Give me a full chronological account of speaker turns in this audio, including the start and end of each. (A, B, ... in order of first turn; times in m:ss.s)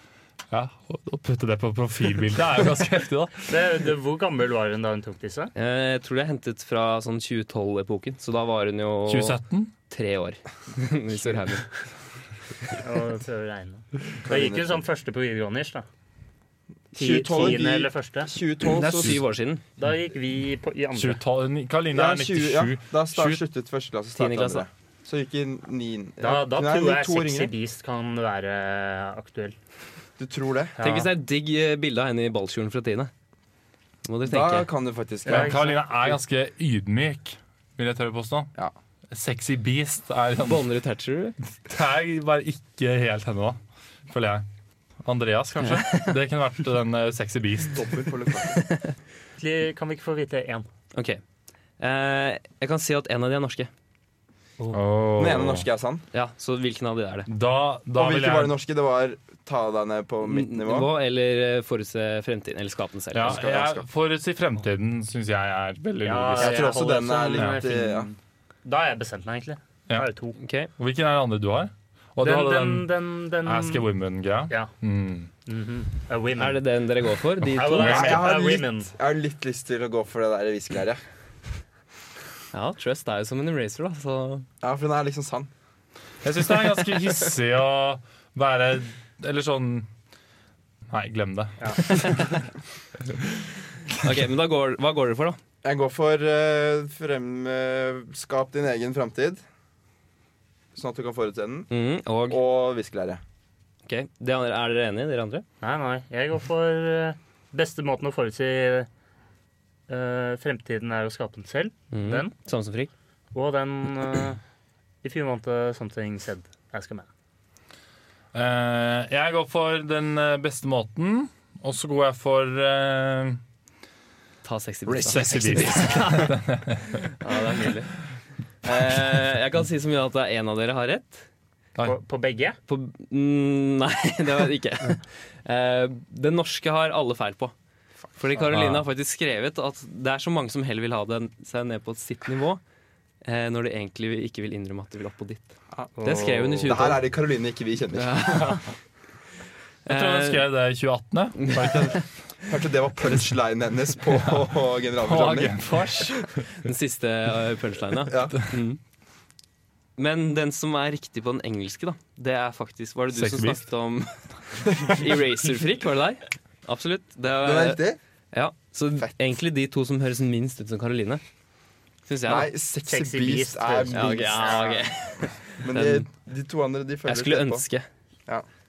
0:00.5-0:03.5 A
0:03.5-0:05.5 B
0:05.5-0:11.7 C
0:09.1-0:09.7 A
0:12.8-0:15.8 B
0:14.2-0:14.8 D
0:16.9-0:19.2 D
0:17.0-0:18.3 B
0:18.6-0:19.6 C
0:19.8-0:21.2 B
0:21.0-0:23.4 A
0:21.9-0:27.5 D
0:24.2-0:24.6 C
0:26.2-0:29.6 B
0:30.2-0:30.8 D
0:30.8-0:31.1 B
0:30.8-0:33.1 C
0:34.0-0:34.7 C
0:34.2-0:35.6 D
0:35.2-0:36.1 B
0:35.2-0:38.5 A
0:39.1-0:40.7 A
0:40.4-0:41.4 C
0:41.6-0:44.4 A
0:45.0-0:47.8 A
0:45.6-0:46.1 C
0:47.7-0:48.6 D
0:49.4-0:50.7 B
0:50.9-0:51.2 C
0:51.8-0:53.7 C
0:54.7-0:55.7 A
0:55.2-0:56.0 D
0:56.1-0:57.3 C
0:57.3-0:58.5 A
0:57.9-1:00.9 D
1:00.2-1:03.4 C
1:03.1-1:06.7 A
1:03.2-1:03.9 D
1:06.0-1:10.4 B
1:06.4-1:08.1 D
1:07.3-1:07.6 A
1:10.4-1:10.7 C
1:10.8-1:12.9 A
1:12.2-1:13.8 B
1:13.4-1:15.3 A
1:15.4-1:16.6 B
1:16.4-1:18.2 C
1:17.4-1:18.2 A
1:17.5-1:18.9 B
1:17.8-1:21.0 D
1:22.5-1:24.5 C
1:24.6-1:25.5 D
1:26.2-1:29.9 A
1:30.9-1:32.4 A
1:31.6-1:31.9 B
1:34.0-1:35.4 C
1:35.6-1:39.4 D
1:40.7-1:41.7 D
1:41.7-1:42.4 C
1:42.3-1:43.2 D
1:43.8-1:45.4 C
1:45.6-1:48.9 B
1:49.9-1:52.3 B
1:51.9-1:52.9 C
1:53.3-1:54.4 B
1:55.0-1:57.1 B
1:58.3-2:03.4 A
2:04.4-2:07.9 C
2:04.8-2:06.3 D
2:05.1-2:07.0 A
2:08.6-2:11.2 C
2:11.8-2:12.6 B
2:12.7-2:17.5 C
2:18.2-2:22.6 C
2:18.4-2:18.8 A
2:23.2-2:27.0 C
2:26.0-2:26.8 B
2:26.6-2:28.6 D
2:28.0-2:28.6 C
2:29.8-2:30.5 C
2:29.9-2:32.1 A
2:31.4-2:31.9 C
2:32.5-2:35.6 D
2:35.0-2:36.4 A
2:36.6-2:38.8 C
2:38.0-2:38.5 D
2:40.0-2:51.2 C
2:43.1-2:43.6 A
2:47.4-2:48.0 D
2:52.0-2:52.5 C
2:52.2-2:54.9 D
2:52.9-2:54.6 B
2:53.9-2:56.1 C
2:55.5-2:57.6 D
2:57.0-2:57.9 C